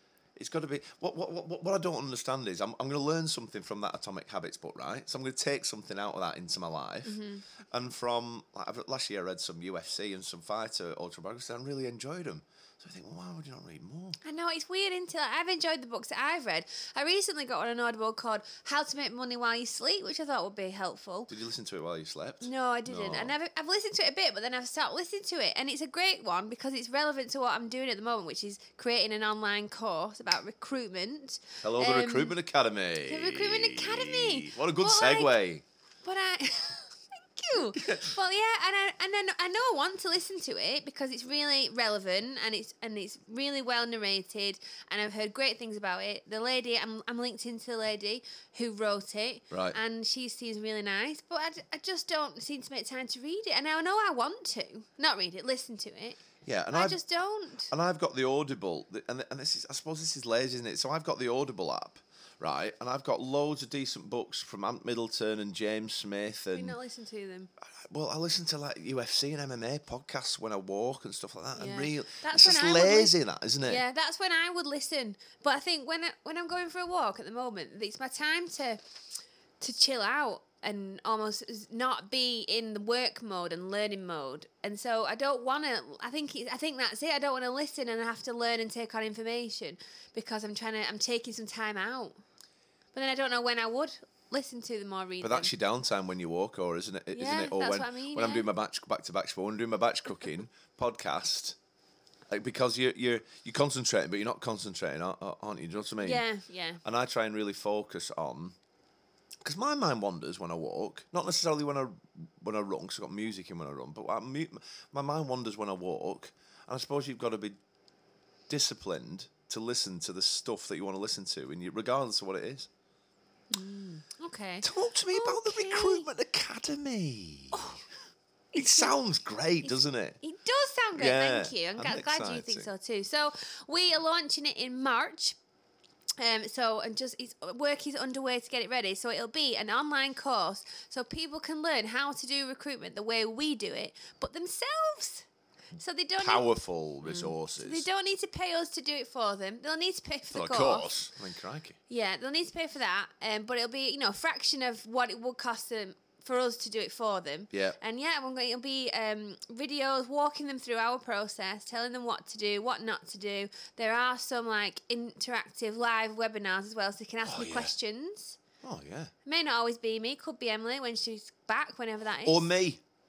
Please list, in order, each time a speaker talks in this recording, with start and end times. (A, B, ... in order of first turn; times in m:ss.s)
0:00.4-0:07.2 A
0:07.0-0:07.4 B
0:07.7-0:14.2 A
0:14.2-0:21.3 B
0:21.3-0:23.3 A
0:22.4-0:32.4 B
0:31.6-0:35.6 A
0:33.0-0:35.4 B
0:36.0-0:56.2 B
0:37.7-0:38.2 A
0:49.5-0:49.8 A
0:56.4-0:57.0 A
0:56.7-0:57.7 B
0:57.7-1:06.8 A
1:06.5-1:07.5 B
1:07.9-1:13.8 A
1:11.6-1:13.1 B
1:13.6-1:18.8 B
1:19.6-1:32.2 B
1:32.9-1:35.5 B
1:35.2-1:41.6 A
1:37.1-1:38.5 B
1:42.3-1:46.2 A
1:46.0-1:46.8 B
1:46.8-1:48.6 A
1:49.4-1:57.6 A
1:58.5-2:02.7 A
2:03.5-2:06.1 B
2:04.6-2:07.6 A
2:07.5-2:07.8 B
2:08.5-2:08.9 B
2:08.6-2:10.2 A
2:09.6-2:15.4 B
2:11.0-2:12.7 A
2:16.2-2:26.5 B
2:26.2-2:27.8 A
2:27.0-2:31.0 B
2:30.3-2:31.8 A
2:31.9-2:48.4 B
2:37.5-2:37.8 A
2:47.2-2:47.7 A
2:48.6-2:49.1 A
2:49.2-2:52.5 B
2:52.2-2:52.8 A